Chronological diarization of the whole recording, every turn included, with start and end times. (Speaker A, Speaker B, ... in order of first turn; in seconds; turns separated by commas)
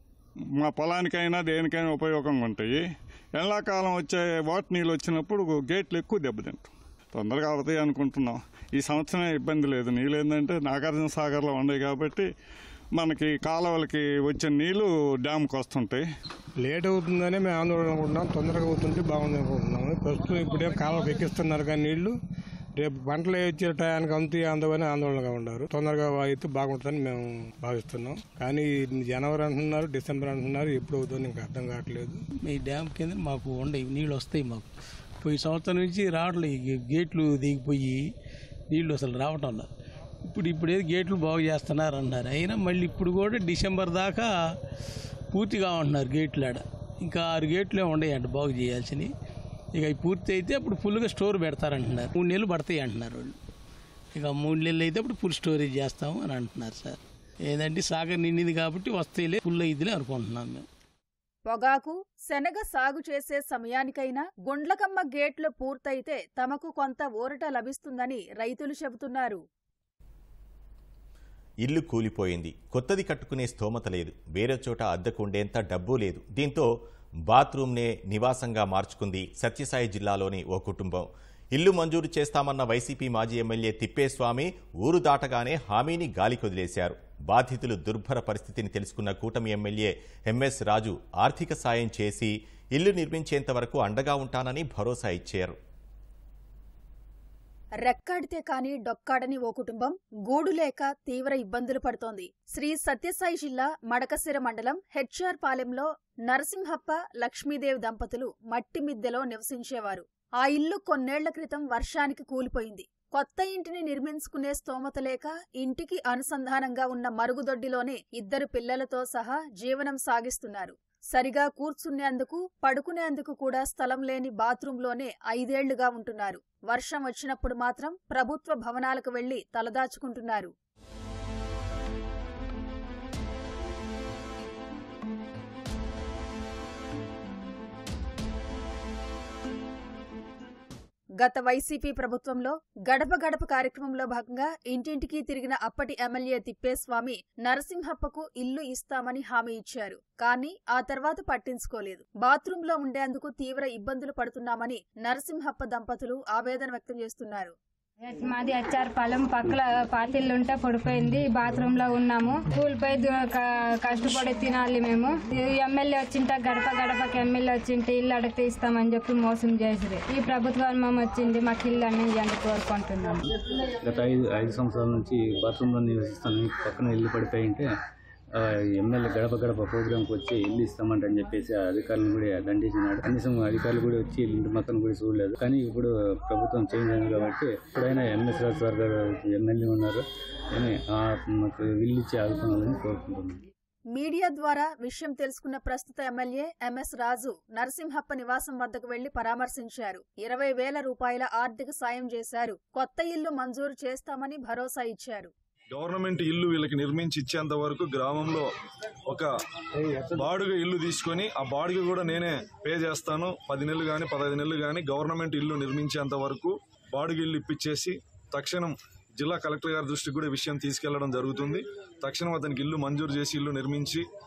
Speaker A: 0.6-2.8, Speaker A: 3.4-12.3, Speaker A: 12.9-16.0, Speaker B: 16.6-22.1, Speaker B: 22.8-32.2, Speaker C: 32.4-34.7, Speaker C: 35.2-38.1, Speaker C: 38.7-39.7, Speaker C: 40.2-44.3, Speaker C: 45.3-49.1, Speaker C: 49.8-53.3, Speaker C: 54.1-57.0, Speaker C: 57.5-60.6, Speaker D: 61.5-69.4, Speaker E: 71.6-76.7, Speaker E: 77.3-95.5, Speaker D: 97.8-130.5, Speaker D: 141.2-157.6, Speaker F: 158.1-173.2, Speaker G: 173.8-177.7, Speaker G: 178.4-190.0, Speaker G: 190.5-193.4, Speaker D: 193.9-205.3, Speaker H: 205.7-208.5, Speaker H: 210.0-224.1